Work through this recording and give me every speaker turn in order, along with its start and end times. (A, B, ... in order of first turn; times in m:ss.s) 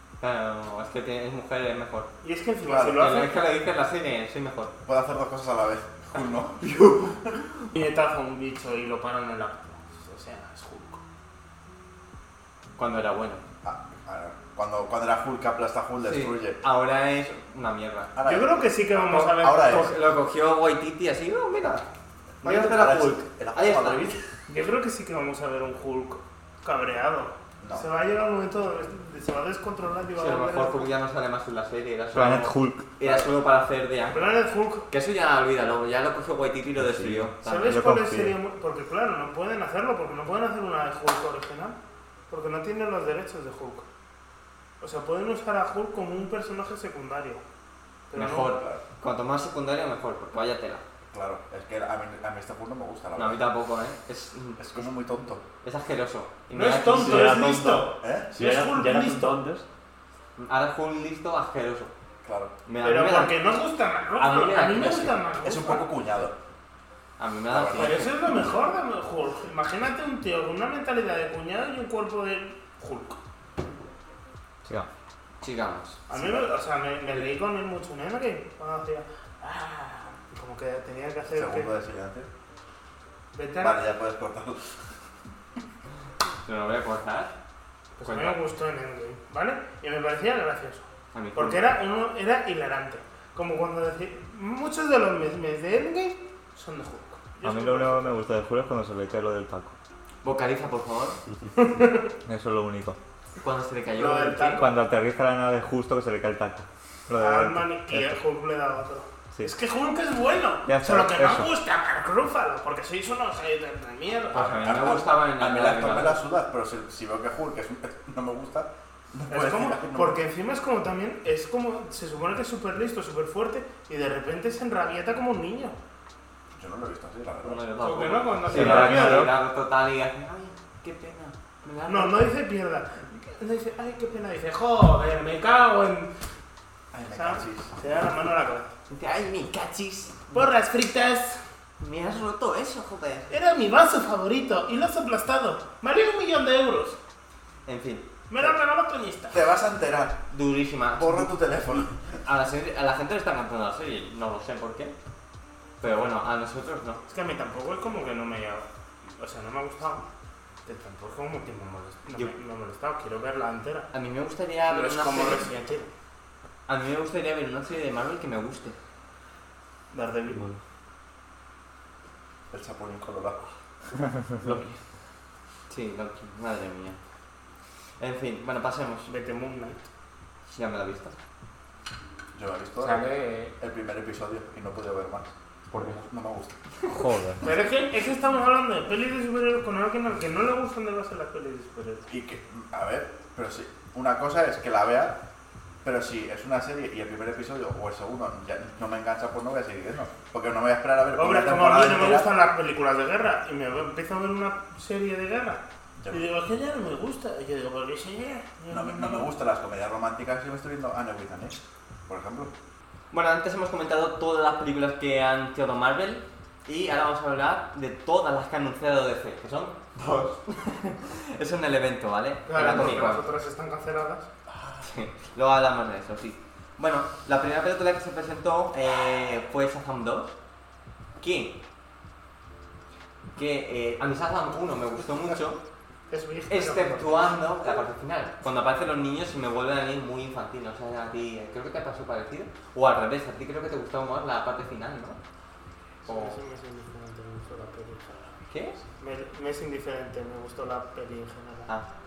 0:00.2-0:02.1 A
0:02.2-0:03.4 B
0:02.6-0:03.2 C
0:02.9-0:04.7 A
0:04.8-0:07.4 C
0:07.7-0:11.0 B
0:12.8-0:13.4 A
0:13.6-0:16.6 C
0:16.0-0:18.1 A
0:18.1-0:19.9 C
0:18.2-0:19.9 B
0:19.0-0:21.8 A
0:22.4-0:24.2 C
0:22.4-0:24.2 A
0:24.5-0:30.9 B
0:27.6-0:27.8 C
0:30.2-0:34.4 A
0:32.1-0:33.0 D
0:34.1-0:34.9 B
0:34.9-0:37.8 A
0:36.8-0:38.4 D
0:37.4-0:41.8 B
0:42.3-0:43.8 B
0:44.8-0:47.4 B
0:48.1-0:48.5 B
0:48.1-0:50.8 A
0:48.5-0:48.8 C
0:51.1-0:53.4 C
0:53.2-0:54.6 A
0:54.6-0:55.4 C
0:55.6-0:57.4 A
0:56.5-0:59.4 B
0:56.9-0:59.6 E
0:58.0-0:58.4 C
1:00.4-1:01.9 A
1:02.2-1:02.5 C
1:02.6-1:03.4 A
1:02.8-1:05.9 B
1:04.2-1:05.2 A
1:05.4-1:06.4 C
1:07.2-1:08.1 A
1:07.5-1:08.1 C
1:07.7-1:13.2 B
1:15.4-1:16.0 A
1:16.1-1:21.7 B
1:16.1-1:16.6 C
1:21.3-1:22.3 C
1:23.3-1:23.8 B
1:23.6-1:24.8 C
1:26.4-1:27.3 A
1:28.0-1:38.2 B
1:28.0-1:28.4 A
1:31.1-1:31.7 A
1:37.4-1:39.7 D
1:40.2-1:41.2 A
1:41.6-1:42.1 B
1:42.2-1:43.0 D
1:43.4-1:44.6 A
1:43.9-1:44.8 B
1:44.5-1:48.2 D
1:47.2-1:54.5 B
1:50.6-1:51.5 D
1:54.3-1:56.2 A
1:54.3-2:00.2 C
1:59.3-2:05.8 B
2:06.6-2:07.6 C
2:07.4-2:12.1 A
2:07.8-2:09.3 B
2:08.5-2:09.3 D
2:11.9-2:16.1 B
2:16.9-2:17.8 C
2:17.1-2:18.7 B
2:18.9-2:20.3 A
2:20.3-2:21.4 B
2:21.8-2:23.3 A
2:23.3-2:27.0 B
2:27.6-2:28.0 A
2:28.3-2:29.4 B
2:29.3-2:30.2 C
2:30.3-2:31.3 A
2:31.0-2:32.0 C
2:32.2-2:34.9 A
2:35.8-2:37.0 A
2:37.1-2:38.7 B
2:39.2-2:40.0 B
2:40.6-2:43.9 B
2:43.9-2:45.5 A
2:44.7-2:45.9 B
2:46.7-2:48.8 A
2:49.9-2:50.4 B
2:50.3-2:50.6 E
2:52.5-2:53.5 C
2:54.3-2:54.8 E
2:55.7-2:57.0 A
2:58.0-2:59.1 A
2:59.1-2:59.8 B
3:00.5-3:01.1 A
3:02.3-3:03.0 C
3:02.8-3:03.5 B
3:03.6-3:05.3 C
3:05.7-3:06.0 E
3:05.9-3:06.5 C
3:06.9-3:07.4 D
3:07.4-3:12.1 B
3:12.1-3:15.2 C
3:15.8-3:22.3 C
3:21.2-3:29.3 B
3:26.0-3:26.2 C
3:28.7-3:32.5 C
3:33.1-3:43.3 A
3:42.4-3:44.3 B
3:44.5-3:44.8 C
3:44.8-3:50.4 A
3:51.2-3:51.6 A
3:53.4-3:55.6 A
3:56.1-3:57.4 B
3:56.5-4:05.2 A
4:06.0-4:08.3 B
4:06.0-4:06.4 A
4:08.5-4:08.8 A
4:09.0-4:11.7 B